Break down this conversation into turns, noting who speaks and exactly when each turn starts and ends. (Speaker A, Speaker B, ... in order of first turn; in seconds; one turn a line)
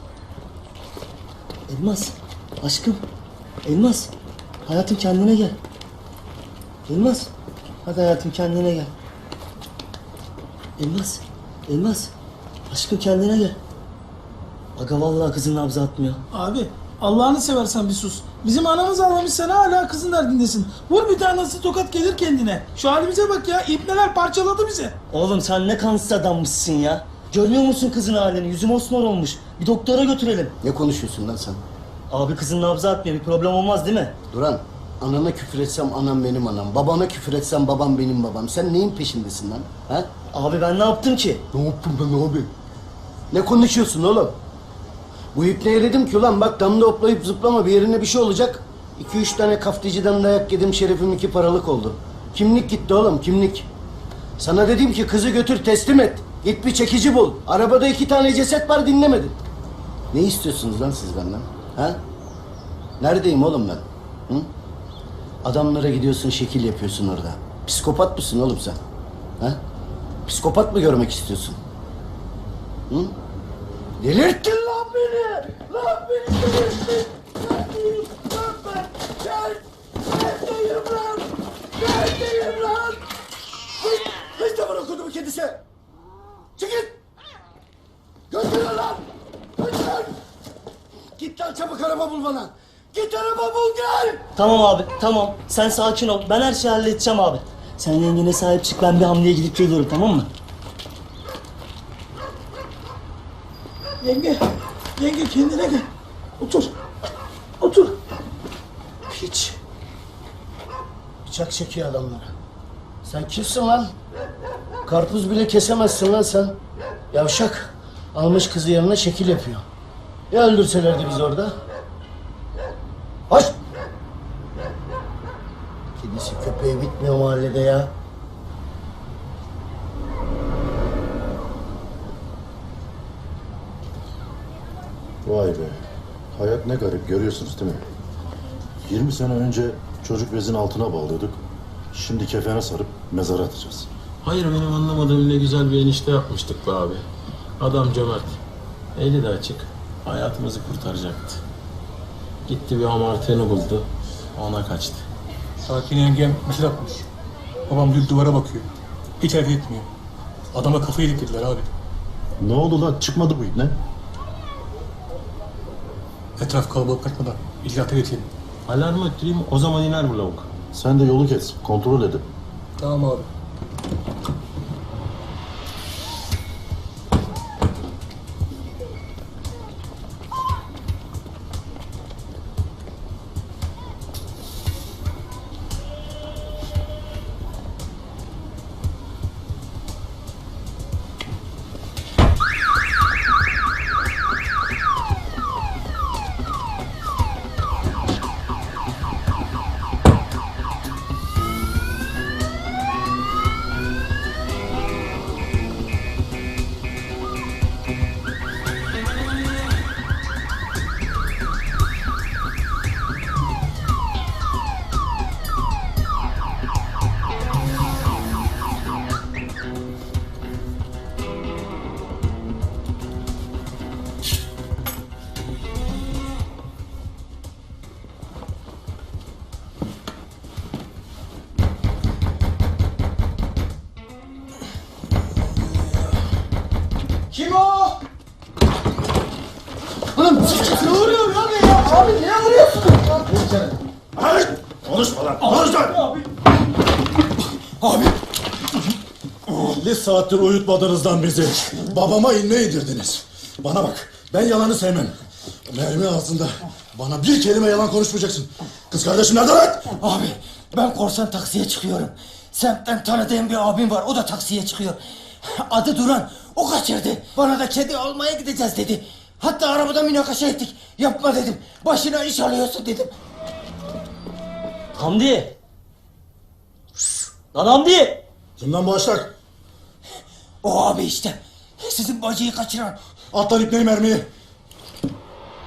Speaker A: 1.7-3.0
Speaker A: 3.6-4.1
Speaker A: 4.7-5.6
Speaker A: 6.9-7.3
Speaker A: 7.8-8.9
Speaker A: 10.8-12.1
Speaker A: 12.7-13.6
Speaker A: 14.8-16.2
Speaker B: 16.3-24.9
Speaker A: 25.1-30.6
Speaker C: 30.6-31.6
Speaker A: 32.1-34.1
Speaker C: 34.3-40.1
Speaker A: 40.3-41.5
Speaker C: 41.5-42.5
Speaker C: 43.3-44.4
Speaker C: 45.3-53.7
Speaker C: 54.4-59.4
Speaker C: 60.1-62.0
Speaker C: 63.0-64.5
Speaker C: 65.4-68.8
Speaker C: 70.3-71.6
Speaker C: 72.9-73.2
Speaker C: 74.0-83.0
Speaker C: 83.8-85.6
Speaker C: 86.6-87.0
Speaker C: 88.3-89.1
Speaker C: 89.6-90.2
Speaker C: 91.2-94.3
Speaker A: 94.4-100.3
Speaker B: 104.0-104.4
Speaker B: 105.0-105.9
Speaker B: 106.4-106.7
Speaker B: 107.6-108.0
Speaker C: 109.1-109.6
Speaker C: 111.2-112.3
Speaker C: 113.0-114.0
Speaker C: 114.8-116.6
Speaker C: 117.1-119.7
Speaker C: 120.3-121.6
Speaker C: 126.0-127.9
Speaker D: 135.2-137.9
Speaker D: 138.8-143.9
Speaker E: 144.2-147.0
Speaker E: 147.6-148.4
Speaker E: 149.0-151.4
Speaker E: 152.5-155.1
Speaker F: 155.6-157.1
Speaker F: 157.7-158.7
Speaker F: 159.2-159.9
Speaker F: 160.5-161.7
Speaker D: 162.4-163.8
Speaker F: 166.4-168.3
Speaker E: 168.7-170.5
Speaker D: 170.7-172.3
Speaker F: 172.8-173.3
Speaker B: 237.3-237.9
Speaker C: 240.2-240.8
Speaker B: 240.6-243.3
Speaker D: 244.2-246.0
Speaker D: 249.5-259.9
Speaker G: 259.9-273.1
Speaker A: 274.9-275.6
Speaker A: 277.5-278.2
Speaker D: 278.6-279.3
Speaker G: 280.6-283.0
Speaker D: 283.3-284.3